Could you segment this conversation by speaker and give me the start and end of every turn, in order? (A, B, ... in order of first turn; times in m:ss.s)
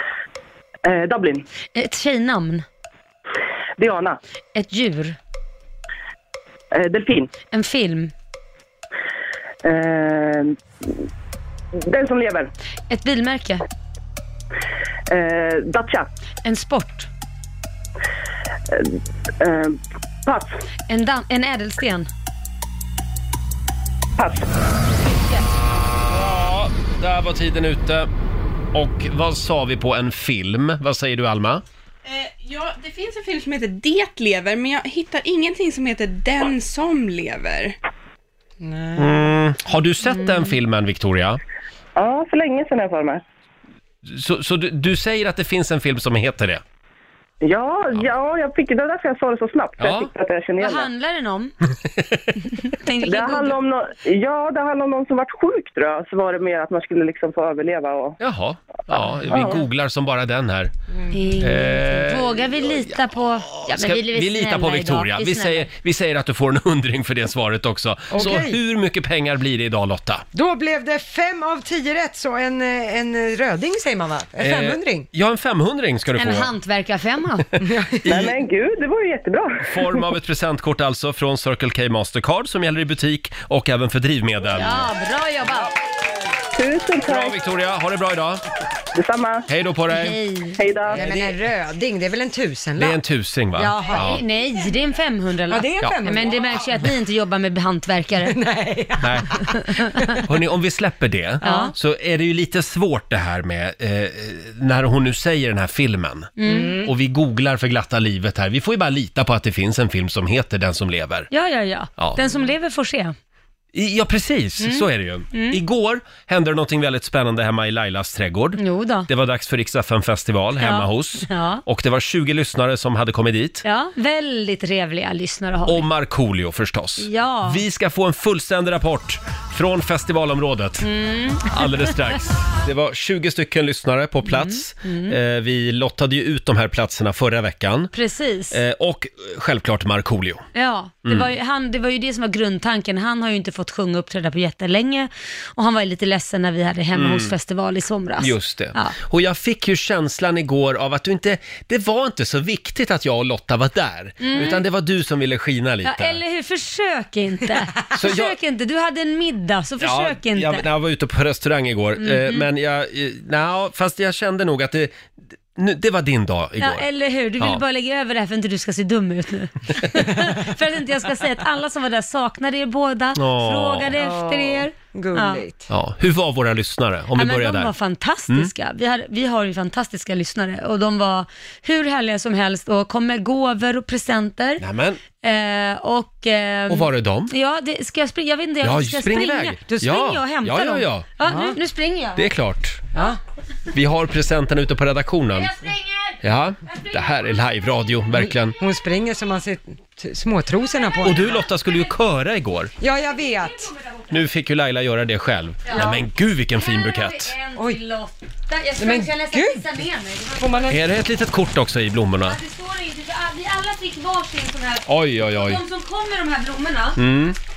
0:00.8-0:01.5 A
0:01.7-0:02.6 B
0:03.8-0:04.2 A
0:04.6-0:05.2 B
0:06.7-0:07.3 A
0:07.5-0:08.1 B
0:09.6-0:10.6 A
0:11.8-0:12.5 A
0:12.9-0:13.6 B
0:15.1-0:16.1 A
0:16.4-0:17.1 B
0:18.7-0:20.6 A
0:20.9-0:22.1 B
0:24.2-0:24.5 A
0:25.1-0:25.4 B
0:26.1-0:28.1 C
0:28.7-0:31.6 C
0:32.0-0:37.8 D
0:38.6-0:39.2 E
0:39.0-0:41.4 C
0:40.2-0:40.5 B
0:42.0-0:43.2 A
0:44.0-0:46.6 C
0:47.4-0:50.9 A
0:49.8-0:50.1 C
0:50.6-0:51.6 B
0:52.7-0:53.6 B
0:53.0-0:58.2 A
0:58.2-1:00.7 C
0:59.3-0:59.6 A
1:01.1-1:05.7 B
1:01.4-1:03.0 C
1:03.5-1:10.2 C
1:08.1-1:08.6 E
1:10.3-1:15.1 E
1:14.4-1:16.5 C
1:16.2-1:17.5 B
1:17.6-1:18.0 E
1:18.1-1:18.3 C
1:18.1-1:19.5 A
1:19.6-1:24.9 C
1:24.5-1:25.7 B
1:26.6-1:27.4 A
1:27.0-1:28.4 C
1:28.9-1:29.4 A
1:29.5-1:30.2 C
1:29.9-1:31.3 B
1:30.6-1:31.0 A
1:30.9-1:33.0 E
1:32.8-1:34.2 C
1:33.5-1:34.1 E
1:33.8-1:38.4 B
1:35.5-1:36.9 E
1:38.3-1:40.2 E
1:39.0-1:39.3 C
1:40.2-1:51.3 C
1:41.4-1:41.7 B
1:41.4-1:41.7 E
1:46.4-1:46.8 B
1:46.4-1:46.9 E
1:51.3-1:53.2 B
1:53.7-2:03.6 C
1:54.6-1:55.6 B
1:58.6-1:59.1 B
2:00.6-2:01.6 B
2:03.6-2:05.9 B
2:05.7-2:10.9 C
2:07.0-2:07.6 B
2:10.8-2:11.9 B
2:11.5-2:17.9 C
2:14.3-2:15.2 B
2:17.9-2:18.6 B
2:18.5-2:20.4 C
2:20.6-2:29.0 B
2:26.9-2:27.3 C
2:28.2-2:36.2 C
2:34.2-2:34.6 B
2:35.8-2:40.6 B
2:37.9-2:38.4 C
2:39.8-2:44.9 C
2:42.0-2:42.4 B
2:45.6-2:46.9 C
2:46.6-2:55.4 B
2:53.2-2:54.0 C
2:54.0-2:55.6 E
2:55.7-2:57.7 C
2:57.2-3:04.6 B
3:04.6-3:05.0 C
3:05.2-3:12.3 B
3:06.7-3:07.3 C
3:08.6-3:11.1 C
3:11.2-3:11.6 E
3:12.2-3:12.8 C
3:13.7-3:15.5 C
3:15.4-3:16.2 B
3:16.2-3:18.6 C
3:18.6-3:21.4 E
3:21.0-3:22.7 C
3:22.8-3:23.7 E
3:23.4-3:24.1 B
3:24.1-3:27.3 C
3:25.7-3:26.0 B
3:25.7-3:26.0 E
3:26.6-3:30.6 B
3:28.8-3:29.6 E
3:30.4-3:30.8 E
3:30.7-3:32.4 C
3:32.2-3:37.0 B
3:34.9-3:35.6 C
3:37.0-3:37.4 C